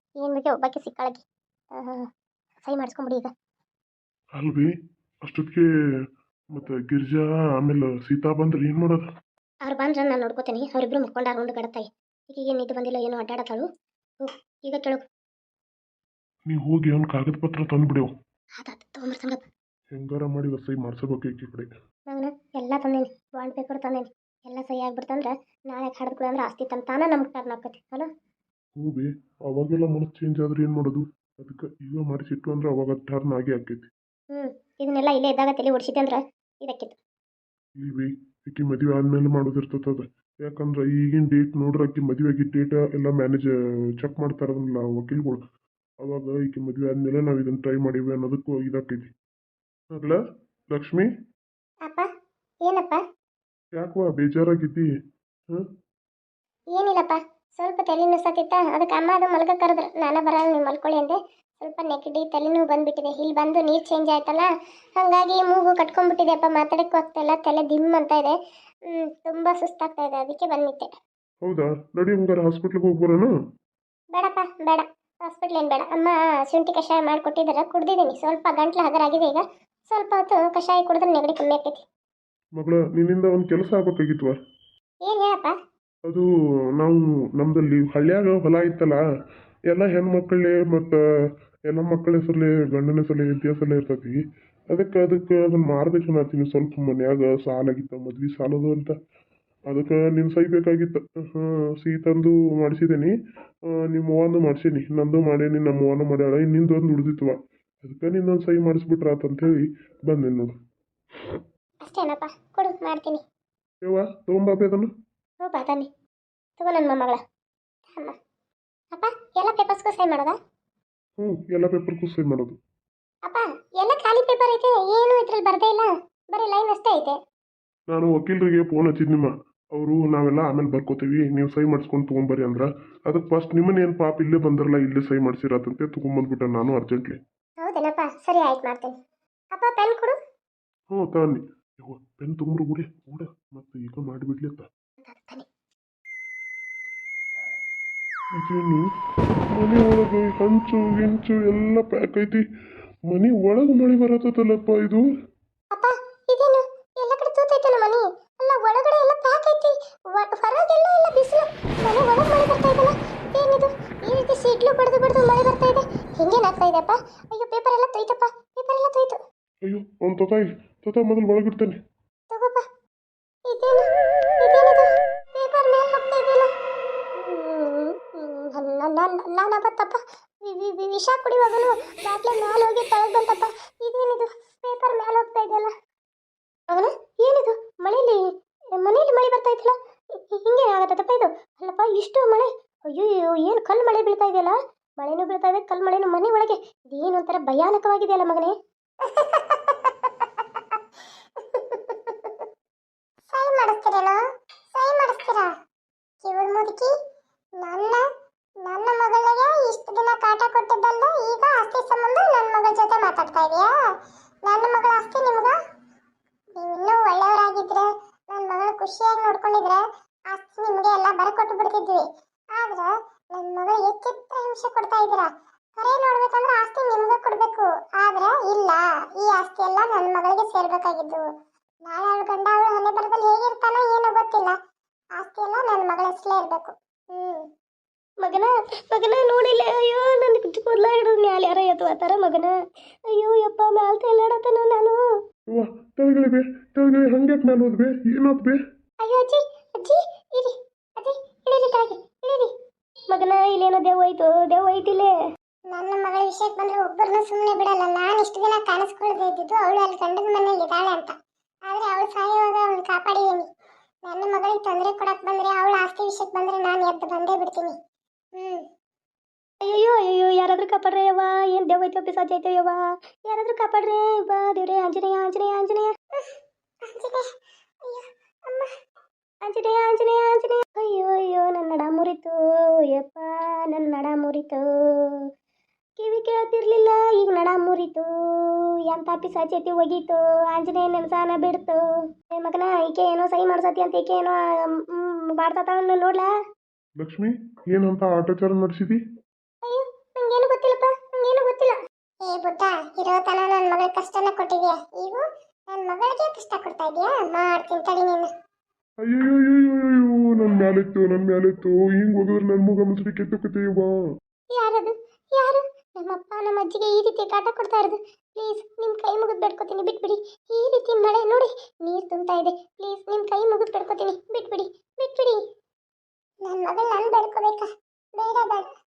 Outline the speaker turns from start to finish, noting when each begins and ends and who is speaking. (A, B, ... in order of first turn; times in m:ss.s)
0:00.2-0:01.2 A
0:01.8-0:02.0 A
0:02.6-0:03.3 A
0:04.4-0:04.7 B
0:05.2-0:05.7 B
0:06.5-0:09.1 B
0:09.6-0:13.7 A
0:14.2-0:15.0 A
0:16.5-0:18.1 B
0:18.6-0:19.4 A
0:19.9-0:21.7 B
0:22.1-0:28.1 A
0:28.8-0:33.9 B
0:34.3-0:37.0 A
0:37.8-0:45.4 B
0:46.0-0:49.1 B
0:49.9-0:50.2 B
0:50.7-0:51.1 B
0:52.6-0:53.0 A
0:53.8-0:54.9 B
0:56.8-1:08.4 A
1:08.9-1:10.9 A
1:11.4-1:13.3 B
1:14.1-1:21.8 A
1:22.6-1:24.4 B
1:25.0-1:25.6 A
1:26.8-1:29.0 B
1:29.7-1:31.0 B
1:31.7-1:34.2 B
1:34.7-1:39.0 B
1:39.7-1:43.1 B
1:43.9-1:50.5 B
1:51.8-1:53.2 A
1:53.9-1:54.9 B
1:55.4-1:55.9 A
1:56.6-1:57.2 A
1:57.9-1:58.2 A
1:58.9-2:00.4 A
2:01.2-2:02.6 B
2:03.3-2:07.2 A
2:07.9-2:17.2 B
2:17.6-2:18.9 A
2:19.5-2:20.2 A
2:20.9-2:24.7 B
2:25.0-2:25.4 A
2:28.4-2:28.8 B
2:29.5-2:32.4 B
2:33.1-2:35.0 B
2:35.7-2:49.2 A
2:49.7-2:51.8 B
2:52.3-2:52.6 A
2:53.5-2:53.8 A
2:54.4-2:56.5 A
2:57.2-3:05.7 A
3:06.7-3:08.2 A
3:08.8-3:09.7 A
3:10.4-3:18.5 A
3:19.0-3:19.8 A
3:21.5-3:22.2 A
3:23.3-3:24.2 A
3:24.7-3:25.5 A
3:26.2-3:26.9 A
3:27.6-3:28.0 A
3:28.6-3:33.7 A
3:34.5-3:35.6 A
3:36.6-3:42.0 A
3:42.6-3:51.3 A
3:51.9-3:54.6 A
3:55.2-3:57.5 A
3:58.2-4:02.5 A
4:03.1-4:05.0 A
4:05.5-4:08.6 B
4:09.0-4:12.5 A
4:13.1-4:15.1 A
4:15.7-4:21.1 A
4:21.7-4:23.4 A
4:24.0-4:27.7 A
4:28.4-4:28.6 A
4:29.7-4:32.8 A
4:33.3-4:36.2 A
4:36.9-4:37.2 A
4:37.9-4:38.7 A
4:39.4-4:42.4 A
4:42.9-4:44.6 A
4:46.0-4:48.0 A
4:48.9-4:51.8 A
4:52.4-4:54.4 A
4:55.3-4:56.3 A
4:57.0-4:59.0 B
4:59.6-5:08.3 A
5:09.0-5:14.0 B
5:14.5-5:25.4 A
5:26.4-5:28.7 A